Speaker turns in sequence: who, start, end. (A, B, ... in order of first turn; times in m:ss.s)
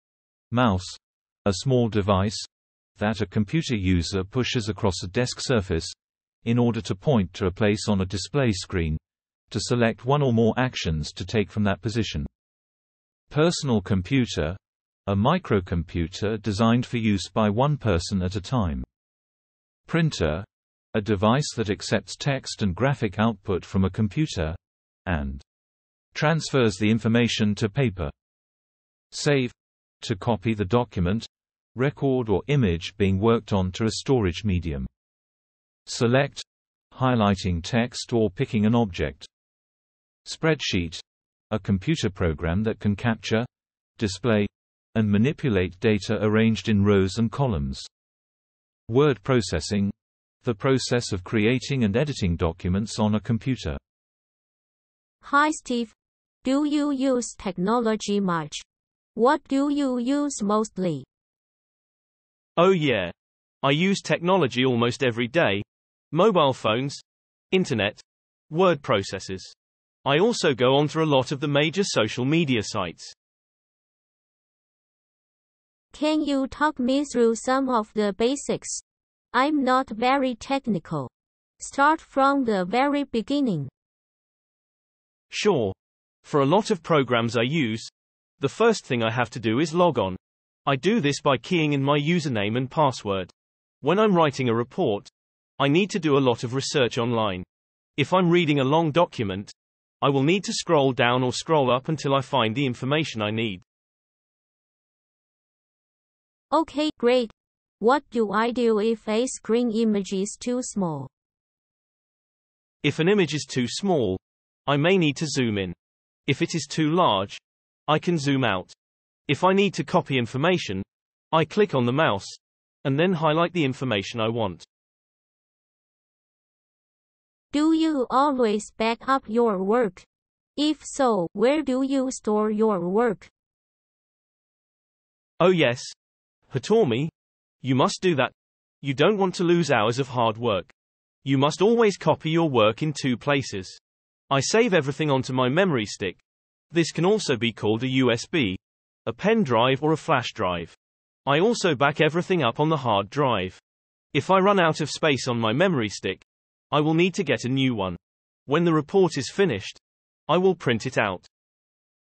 0:00.5-0:12.3 A
0:13.3-0:18.9 A
0:19.9-0:25.4 A
0:26.1-0:28.1 A
0:29.1-0:34.9 A
0:35.9-0:39.3 A
0:40.2-0:43.5 A
0:44.0-0:47.9 A
0:48.9-0:53.8 A
0:55.2-0:58.6 B
0:59.2-1:01.1 B
1:02.6-1:03.1 C
1:03.6-1:09.5 C
1:10.0-1:13.1 C
1:15.9-1:18.8 B
1:19.3-1:21.1 B
1:21.6-1:23.7 B
1:25.3-1:33.3 C
1:33.8-1:37.5 C
1:38.0-1:43.6 C
1:46.5-1:51.1 B
1:52.8-1:55.8 C
1:56.3-1:58.7 C
1:59.3-2:04.7 C
2:07.5-2:10.1 B
2:10.6-2:13.3 B
2:15.4-2:15.9 C
2:16.5-2:17.1 C
2:17.6-2:20.7 C
2:21.2-2:26.2 C
2:26.7-2:30.8 C
2:31.3-2:33.6 C
2:34.1-2:41.3 C